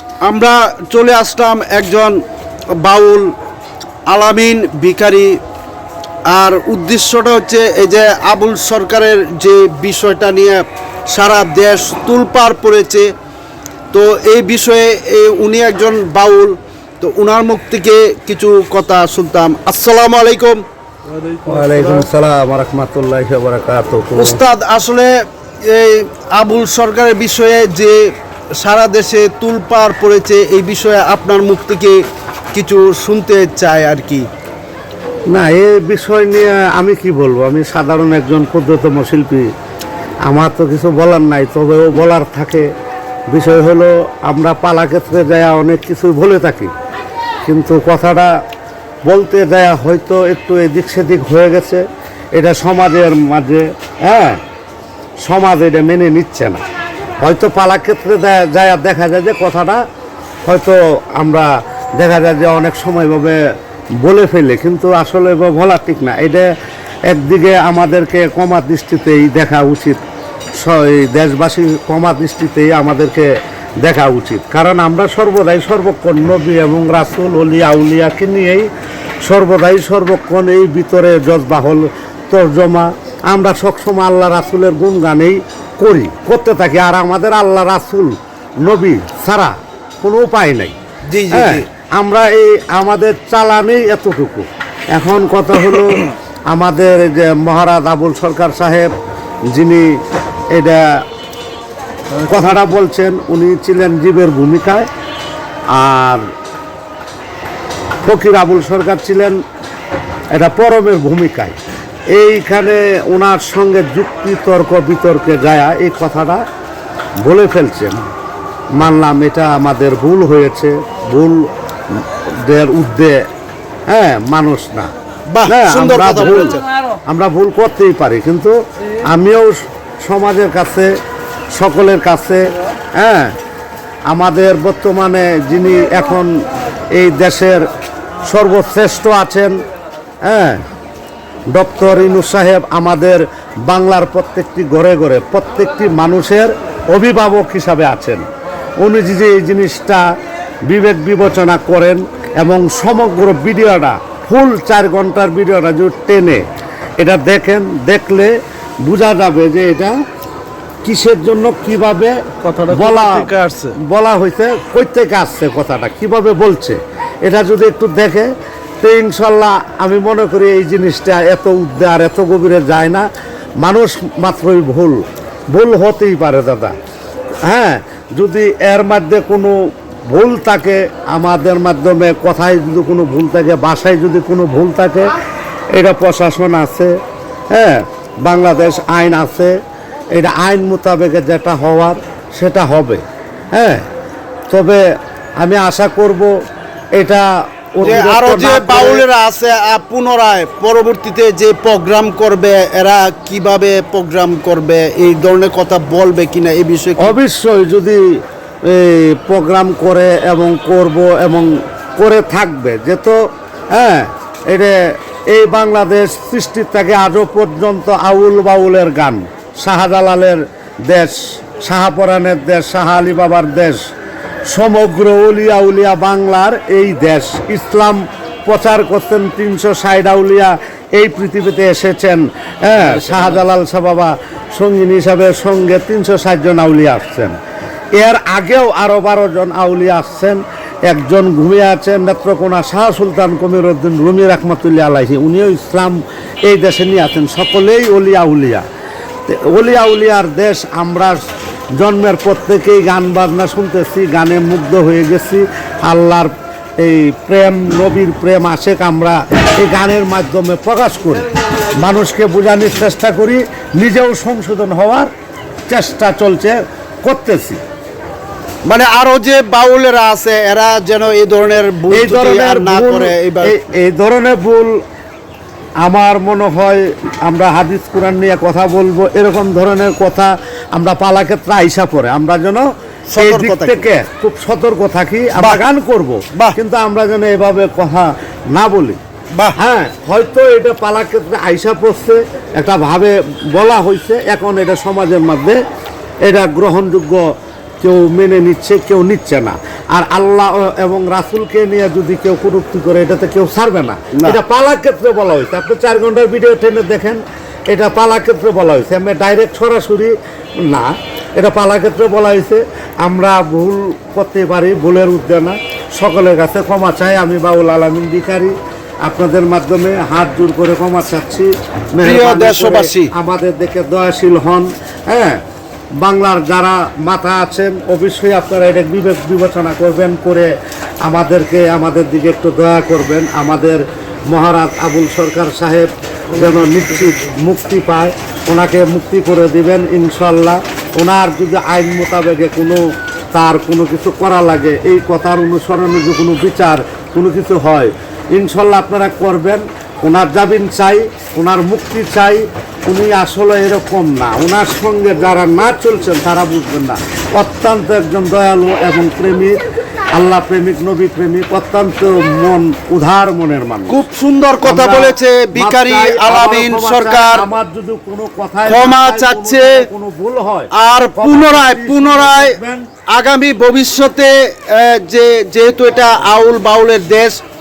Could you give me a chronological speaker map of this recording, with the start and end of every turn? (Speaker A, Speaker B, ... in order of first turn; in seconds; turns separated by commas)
Speaker A: 0.2-2.2, Speaker A: 2.8-3.3, Speaker A: 4.1-5.4, Speaker A: 6.3-13.1, Speaker A: 13.9-20.6, Speaker B: 21.4-24.4, Speaker A: 24.1-25.1, Speaker A: 25.6-32.0, Speaker A: 32.5-34.2, Speaker B: 35.3-39.5, Speaker B: 40.3-42.7, Speaker B: 43.3-46.7, Speaker B: 47.5-48.3, Speaker B: 49.1-51.8, Speaker B: 52.4-54.4, Speaker B: 55.2-56.6, Speaker B: 57.2-59.8, Speaker B: 60.5-63.4, Speaker B: 64.0-66.5, Speaker B: 67.1-70.0, Speaker B: 70.6-73.3, Speaker B: 73.8-78.7, Speaker B: 79.2-90.8, Speaker A: 91.1-91.7, Speaker B: 91.3-98.9, Speaker B: 99.5-100.0, Speaker B: 100.5-101.0, Speaker B: 102.3-104.9, Speaker B: 105.7-106.2, Speaker B: 108.0-109.4, Speaker B: 110.3-111.6, Speaker B: 112.1-116.4, Speaker B: 117.2-118.0, Speaker B: 118.7-123.2, Speaker B: 123.9-124.9, Speaker A: 125.3-126.7, Speaker B: 125.5-130.9, Speaker B: 131.5-133.4, Speaker B: 134.1-136.3, Speaker B: 136.9-137.7, Speaker B: 138.2-139.6, Speaker B: 140.2-140.6, Speaker B: 141.5-148.2, Speaker B: 148.8-150.1, Speaker B: 150.7-156.4, Speaker B: 157.0-158.3, Speaker B: 158.8-159.9, Speaker B: 160.8-168.3, Speaker A: 162.4-163.8, Speaker B: 168.8-173.1, Speaker B: 173.6-175.0, Speaker B: 175.5-176.7, Speaker B: 177.4-179.6, Speaker B: 180.1-185.1, Speaker B: 185.8-186.9, Speaker B: 187.5-189.6, Speaker B: 190.2-193.0, Speaker B: 193.5-193.8, Speaker B: 194.5-194.8, Speaker B: 195.4-196.3, Speaker B: 197.0-199.0, Speaker A: 197.8-207.2, Speaker B: 207.0-208.0, Speaker B: 208.7-213.2, Speaker B: 213.7-214.8, Speaker B: 215.3-223.8, Speaker B: 224.5-237.3, Speaker A: 232.8-233.4, Speaker B: 238.0-248.7, Speaker B: 249.3-251.2, Speaker B: 251.8-261.3, Speaker B: 261.8-265.1, Speaker B: 265.7-267.6, Speaker A: 268.7-273.6, Speaker B: 271.9-274.8, Speaker B: 275.8-289.0, Speaker A: 283.1-283.9, Speaker A: 285.4-285.6, Speaker B: 289.6-295.6, Speaker B: 296.3-297.3, Speaker B: 297.8-325.4, Speaker A: 304.1-304.4, Speaker A: 322.0-323.1, Speaker B: 326.0-330.5, Speaker B: 331.1-342.8, Speaker B: 343.3-359.6, Speaker B: 360.1-364.0, Speaker A: 363.9-367.5, Speaker B: 364.6-372.9, Speaker A: 368.7-369.9, Speaker A: 370.7-372.6, Speaker A: 373.1-377.4